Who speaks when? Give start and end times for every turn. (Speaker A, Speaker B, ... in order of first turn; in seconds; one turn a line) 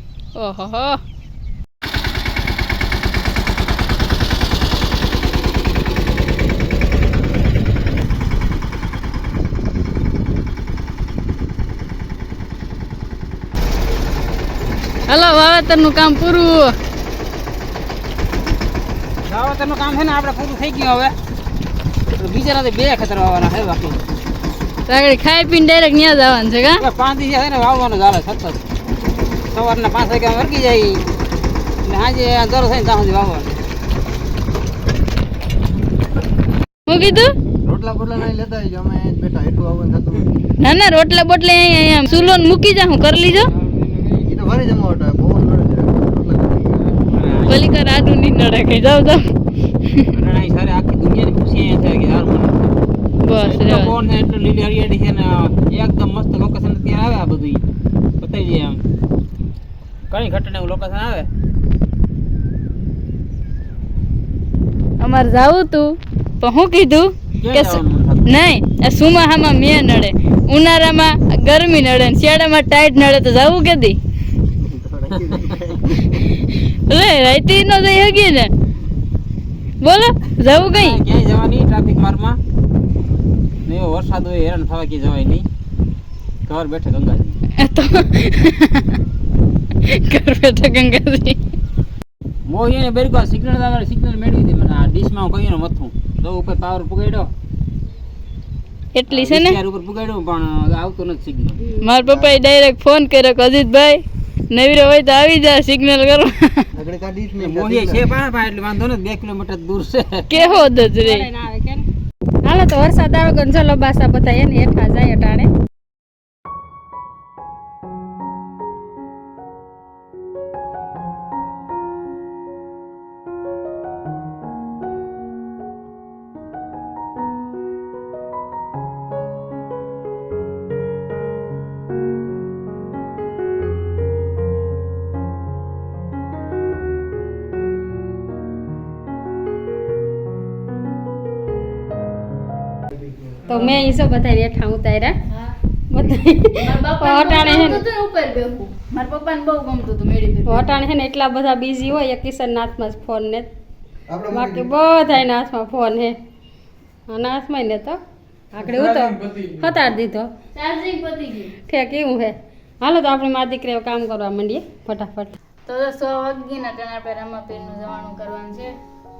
Speaker A: 0.4-1.0
Speaker A: 15.1-16.7
Speaker B: 19.2-21.1
Speaker B: 22.1-24.0
Speaker A: 24.9-26.9
Speaker B: 26.8-28.6
Speaker B: 29.5-31.0
Speaker B: 31.9-33.5
Speaker A: 36.9-37.3
Speaker C: 37.6-40.4
Speaker A: 40.6-43.5
Speaker B: 43.2-44.3
Speaker C: 44.2-47.0
Speaker B: 47.0-47.7
Speaker A: 47.5-49.2
Speaker A: 49.8-50.1
Speaker B: 50.1-52.8
Speaker A: 53.2-54.0
Speaker B: 53.4-57.6
Speaker B: 58.2-58.8
Speaker B: 60.1-61.3
Speaker A: 65.0-74.0
Speaker B: 67.4-68.3
Speaker C: 74.6-76.2
Speaker A: 76.9-78.5
Speaker A: 79.8-81.0
Speaker B: 80.5-82.4
Speaker B: 83.7-85.5
Speaker B: 86.5-87.4
Speaker A: 87.6-89.0
Speaker A: 89.8-91.4
Speaker B: 92.5-97.3
Speaker A: 98.9-99.6
Speaker B: 99.1-101.6
Speaker D: 101.6-101.9
Speaker A: 101.8-106.7
Speaker C: 102.0-102.4
Speaker C: 106.8-108.1
Speaker B: 107.4-110.3
Speaker A: 110.3-111.3
Speaker D: 110.3-111.9
Speaker D: 112.4-115.5
Speaker D: 143.5-145.2
Speaker D: 145.9-147.8
Speaker A: 146.6-150.8
Speaker D: 150.5-153.5
Speaker C: 154.1-154.8
Speaker D: 154.3-156.2
Speaker D: 157.1-158.0
Speaker D: 158.5-160.3
Speaker C: 158.6-159.7
Speaker A: 160.5-161.6
Speaker D: 161.7-165.4
Speaker A: 165.7-168.7